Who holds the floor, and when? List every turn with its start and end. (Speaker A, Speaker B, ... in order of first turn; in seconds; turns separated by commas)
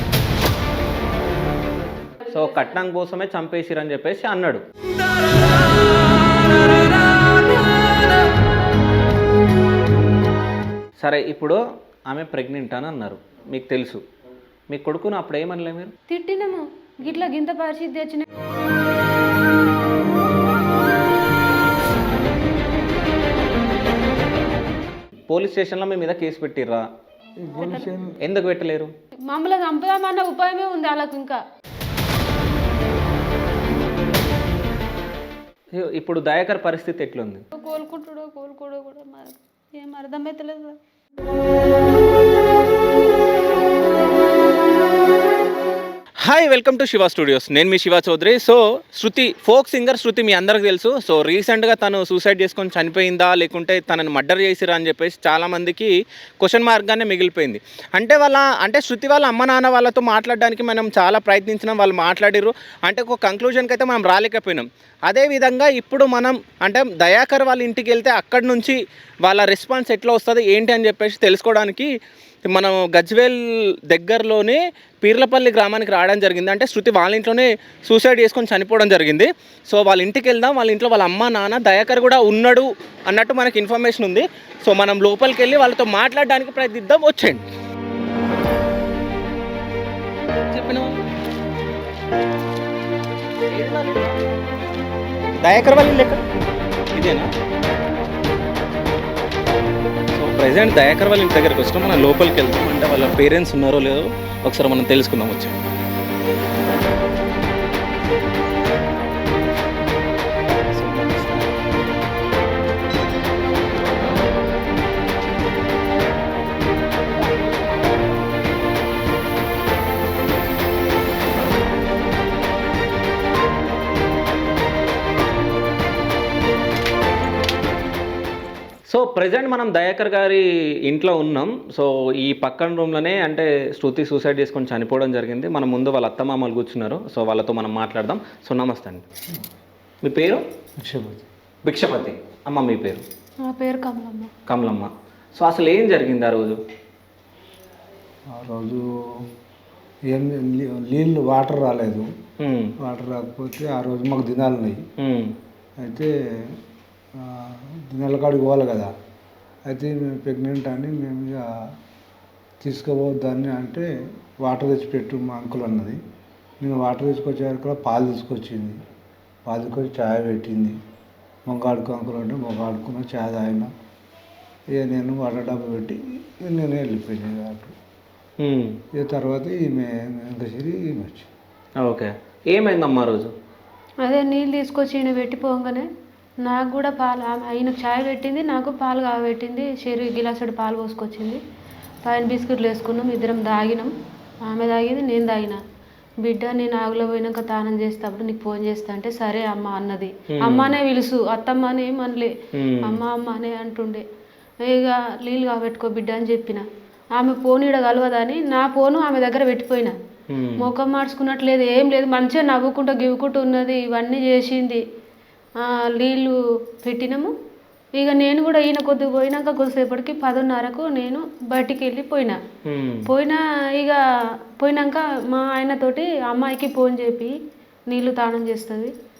Speaker A: 2.3-4.6, Speaker A: 11.0-14.0, Speaker A: 14.7-15.9, Speaker B: 16.1-18.2, Speaker A: 25.3-26.9, Speaker C: 27.4-28.2, Speaker A: 28.2-28.9, Speaker B: 29.3-31.4, Speaker A: 35.7-37.4, Speaker B: 37.5-40.8, Speaker A: 46.2-71.9, Speaker A: 72.4-87.4, Speaker A: 90.5-91.0, Speaker A: 93.5-94.2, Speaker A: 95.4-96.2, Speaker A: 96.9-97.3, Speaker A: 100.1-105.5, Speaker A: 110.7-111.5, Speaker A: 128.9-139.0, Speaker A: 140.0-140.4, Speaker C: 140.8-141.3, Speaker A: 141.6-143.0, Speaker B: 143.4-144.3, Speaker A: 144.5-146.6, Speaker C: 148.3-149.3, Speaker C: 150.1-152.1, Speaker A: 152.4-152.7, Speaker C: 152.8-154.8, Speaker A: 155.0-155.3, Speaker C: 155.8-156.6, Speaker C: 157.1-158.9, Speaker C: 159.7-161.6, Speaker C: 162.6-163.9, Speaker C: 164.4-166.0, Speaker C: 166.6-168.8, Speaker C: 169.5-170.8, Speaker C: 171.5-173.7, Speaker C: 174.7-177.7, Speaker A: 178.4-178.8, Speaker C: 178.9-181.3, Speaker A: 181.8-183.3, Speaker B: 184.0-185.9, Speaker B: 186.4-191.4, Speaker B: 192.0-193.9, Speaker B: 194.4-195.6, Speaker B: 196.2-204.0, Speaker A: 200.3-200.7, Speaker A: 202.5-203.0, Speaker B: 204.6-209.9, Speaker A: 210.3-210.7, Speaker B: 210.6-214.8, Speaker B: 215.6-217.3, Speaker B: 217.9-222.4, Speaker A: 222.6-223.1, Speaker B: 223.1-224.0, Speaker B: 224.6-227.3, Speaker B: 227.9-228.9